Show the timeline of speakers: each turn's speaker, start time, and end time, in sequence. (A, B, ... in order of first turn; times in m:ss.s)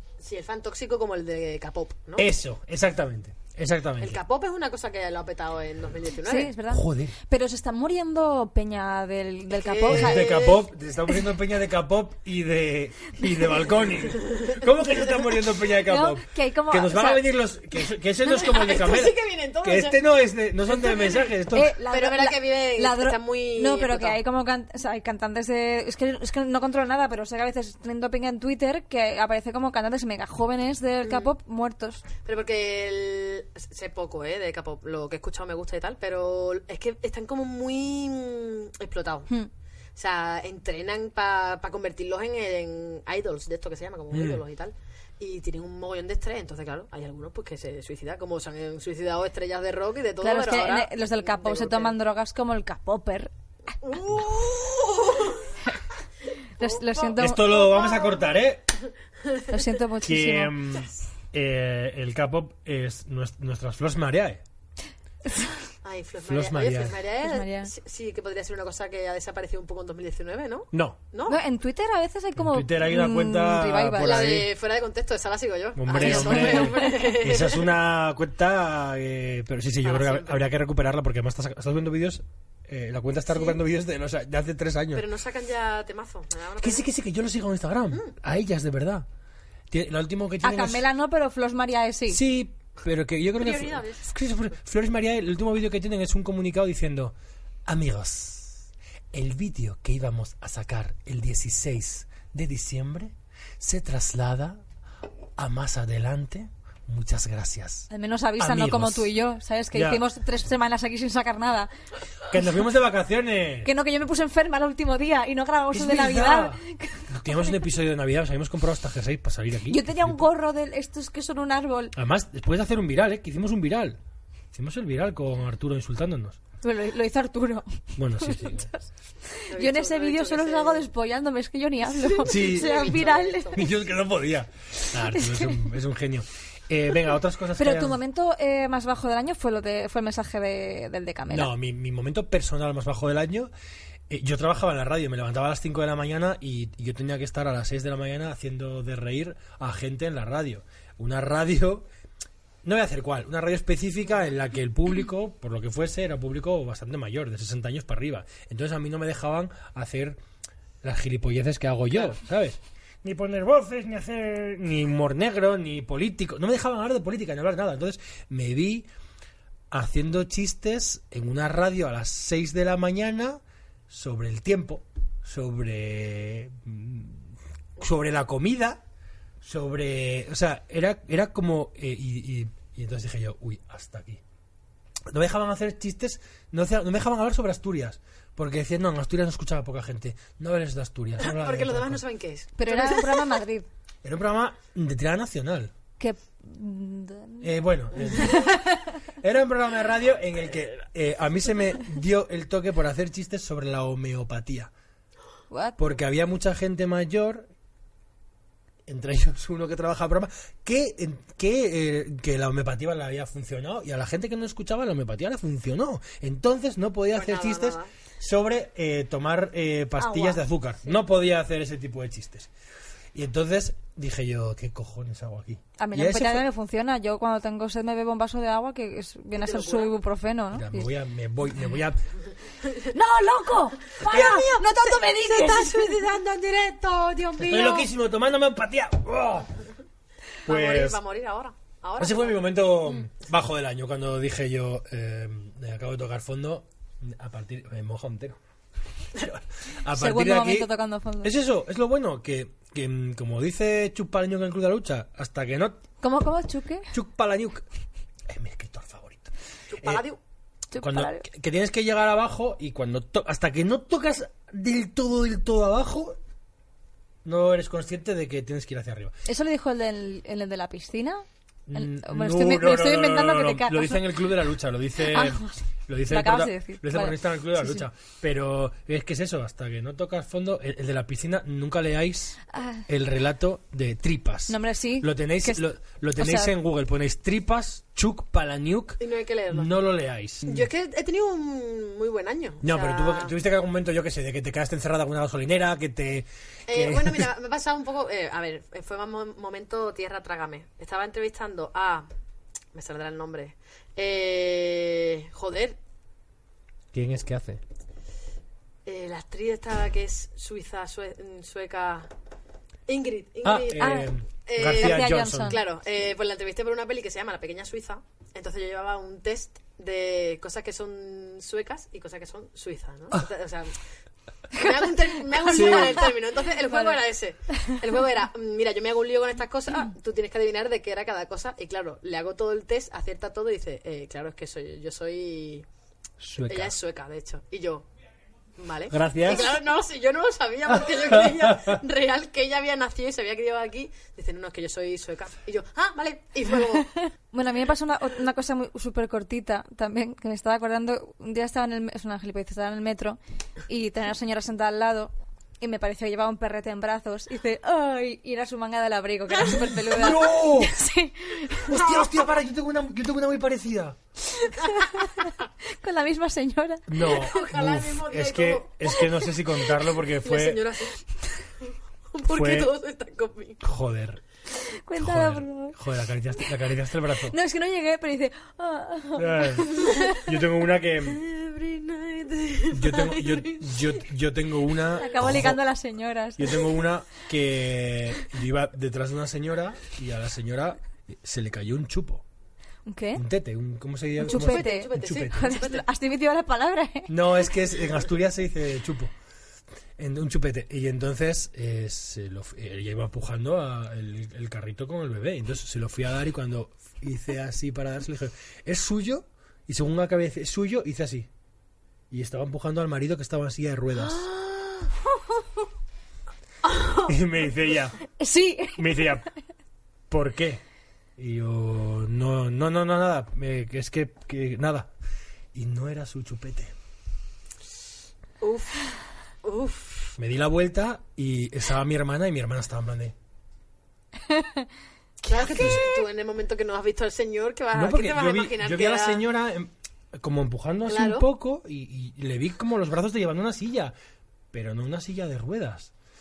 0:00.2-0:02.3 A
0:02.2-0:04.2 B
0:04.0-0:06.5 A
0:06.2-0:10.3 C
0:06.7-0:07.2 B
0:09.5-0:10.7 A
0:09.9-0:21.8 B
0:14.1-0:14.6 A
0:15.8-0:17.2 C
0:18.2-0:20.0 A
0:20.7-0:21.3 A
0:21.5-0:32.0 C
0:21.9-0:24.2 A
0:31.0-0:31.3 A
0:32.2-0:39.3 A
0:40.0-0:52.0 A
0:44.1-0:44.4 B
0:50.2-0:53.3 C
0:53.8-0:55.6 A
0:56.6-0:57.6 C
0:56.6-0:58.3 A
0:57.2-0:58.6 B
0:59.2-0:59.6 A
0:59.5-1:00.5 C
1:00.0-1:04.4 B
1:05.3-1:05.5 C
1:05.8-1:11.4 A
1:06.3-1:07.0 B
1:07.2-1:07.7 C
1:10.7-1:11.0 B
1:11.3-1:14.3 C
1:12.4-1:14.5 B
1:14.0-1:17.7 A
1:15.8-1:25.1 B
1:15.9-1:17.1 C
1:19.8-1:20.5 A
1:23.3-1:23.6 A
1:24.9-1:26.9 A
1:26.6-1:29.1 B
1:29.7-1:30.8 B
1:30.4-1:32.2 C
1:32.1-1:37.1 B
1:33.4-1:34.1 A
1:37.7-1:44.6 B
1:45.4-1:49.1 B
1:47.9-1:51.7 C
1:49.7-1:50.0 B
1:52.3-1:53.7 B
1:53.6-1:57.6 C
1:55.7-2:00.2 B
1:59.7-2:02.0 C
2:02.0-2:04.0 B
2:04.5-2:06.4 B
2:06.6-2:13.6 C
2:08.0-2:08.7 B
2:09.5-2:10.9 A
2:12.0-2:13.7 A
2:12.2-2:18.0 B
2:15.1-2:15.6 C
2:17.6-2:21.5 C
2:21.3-2:23.5 B
2:24.1-2:31.9 B
2:32.6-2:40.2 B
2:40.8-2:48.9 B
2:49.7-2:58.8 B
2:59.4-3:04.2 B
3:05.1-3:12.0 B
3:11.2-3:13.4 A
3:12.6-3:13.7 C
3:14.0-3:15.7 B
3:16.0-3:18.9 C
3:17.4-3:18.5 B
3:19.2-3:24.7 B
3:25.5-3:26.0 C
3:25.8-3:27.5 B
3:28.9-3:42.5 B
3:37.1-3:37.9 A
3:40.0-3:40.4 C
3:43.1-3:46.5 B
3:45.8-3:50.9 C
3:49.4-3:49.9 A
3:50.5-3:52.0 B
3:52.9-3:56.0 C
3:54.0-3:57.9 A
3:54.1-3:54.4 B
3:57.4-3:59.6 B
4:00.5-4:01.0 B
4:00.5-4:02.4 A
4:02.0-4:08.4 B
4:09.2-4:10.7 B
4:09.9-4:11.3 C
4:11.2-4:15.8 B
4:16.0-4:16.9 C
4:16.9-4:17.6 B
4:18.3-4:20.1 B
4:19.7-4:20.2 A
4:20.7-4:21.2 C
4:20.8-4:26.2 B
4:27.2-4:29.1 B
4:29.3-4:31.2 C
4:31.7-4:50.7 B
4:31.8-4:34.1 C
4:35.0-4:37.8 C
4:42.5-4:42.9 C
4:44.5-4:45.6 C
4:46.2-4:46.5 C
4:49.0-4:49.7 A
4:50.5-4:53.3 A
4:52.6-4:57.3 B
4:56.7-5:02.1 A
5:02.7-5:05.8 A
5:06.9-5:07.6 B
5:08.9-5:12.1 A
5:12.9-5:23.8 A
5:13.4-5:15.6 B
5:13.8-5:14.1 C
5:14.6-5:15.6 C
5:24.5-5:35.7 A
5:24.6-5:26.1 C
5:25.5-5:26.0 B
5:26.7-5:27.0 C
5:36.2-5:36.7 B
5:36.4-5:37.9 A
5:38.6-5:46.9 A
5:38.9-5:39.5 B
5:41.1-5:41.8 B
5:46.7-6:01.8 C
5:59.4-6:00.8 B
6:01.7-6:04.0 B
6:01.7-6:02.1 A
6:04.3-6:07.3 C
6:06.9-6:10.7 B
6:07.0-6:11.0 A
6:12.1-6:13.6 A
6:12.3-6:12.7 B
6:13.6-6:14.2 B
6:14.6-6:15.8 C
6:15.0-6:17.4 B
6:17.2-6:20.2 C
6:19.2-6:21.2 B
6:19.8-6:20.2 A
6:21.0-6:24.0 A
6:22.7-6:25.6 B
6:25.0-6:26.7 C
6:26.4-6:32.2 B
6:32.9-6:33.2 C
6:33.2-6:35.5 B
6:34.2-6:37.3 C
6:34.2-6:35.8 A
6:37.1-6:39.1 B
6:40.0-6:51.3 B
6:52.1-6:54.3 B
6:54.1-6:54.9 A
6:56.7-6:57.1 A
6:57.0-6:58.0 B
6:58.2-6:59.1 C
6:58.8-6:59.3 B
7:00.1-7:00.6 B
7:01.2-7:04.9 B
7:05.5-7:06.7 B
7:08.4-7:08.9 A
7:09.4-7:10.1 A
7:10.2-7:13.2 B
7:14.3-7:14.7 C
7:15.2-7:19.2 A
7:15.3-7:15.9 B
7:17.7-7:23.9 B
7:20.9-7:21.3 A
7:24.5-7:25.9 B